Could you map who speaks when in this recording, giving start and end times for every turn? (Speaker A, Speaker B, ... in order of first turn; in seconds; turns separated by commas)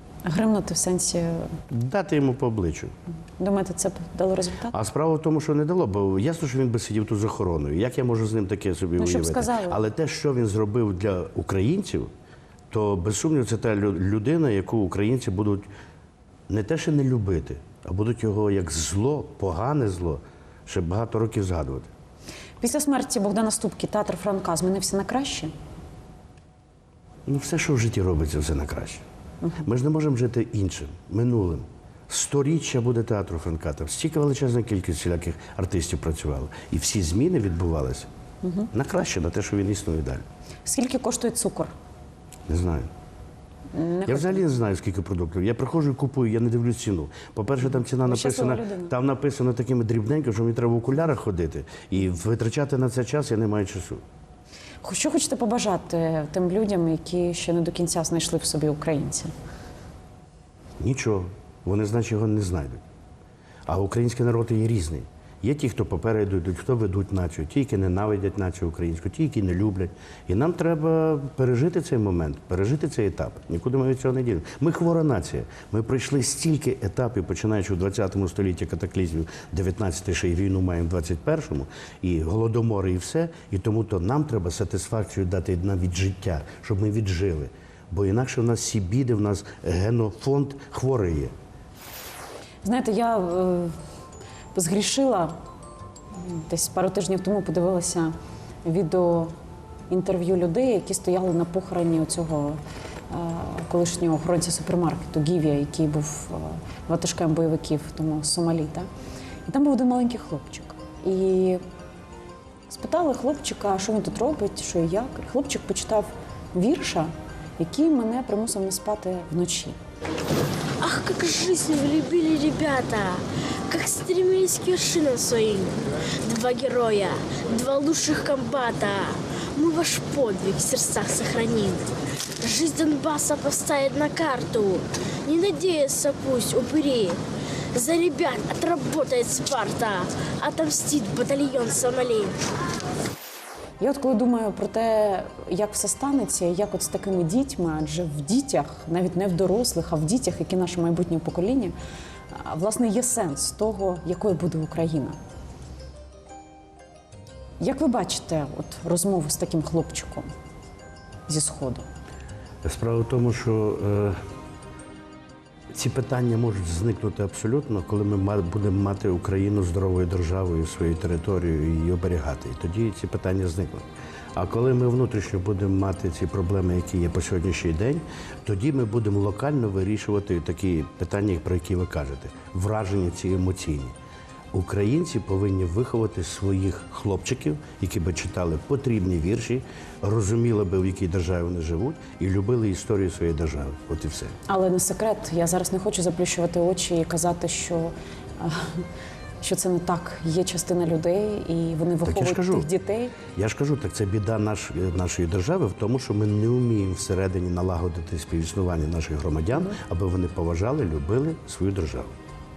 Speaker A: 0.2-1.5, Speaker B: 1.7-2.9, Speaker A: 3.4-4.7, Speaker B: 4.7-12.1, Speaker A: 9.0-9.8, Speaker B: 12.7-15.7, Speaker B: 16.5-21.9, Speaker A: 22.6-25.5, Speaker B: 27.2-29.0, Speaker B: 29.6-38.1, Speaker A: 38.4-38.7, Speaker B: 38.7-40.2, Speaker A: 40.6-41.7, Speaker B: 42.5-42.9, Speaker A: 43.7-44.5, Speaker B: 44.1-54.0, Speaker A: 47.8-48.9, Speaker A: 54.8-59.3, Speaker B: 60.8-62.8, Speaker B: 63.7-91.3, Speaker A: 92.6-93.7, Speaker A: 94.5-95.4, Speaker A: 96.2-98.1, Speaker A: 98.6-99.3, Speaker A: 99.9-102.6, Speaker A: 103.1-108.9, Speaker A: 109.5-111.6, Speaker A: 112.7-119.8, Speaker C: 120.8-131.9, Speaker C: 132.4-137.2, Speaker C: 137.7-142.4, Speaker A: 143.8-151.7, Speaker A: 152.3-155.2, Speaker A: 157.6-160.3, Speaker A: 161.3-161.8, Speaker B: 162.6-164.2, Speaker B: 165.7-183.9, Speaker B: 184.5-194.3, Speaker A: 194.5-198.8, Speaker A: 199.4-203.1, Speaker B: 202.0-202.7, Speaker B: 203.3-212.1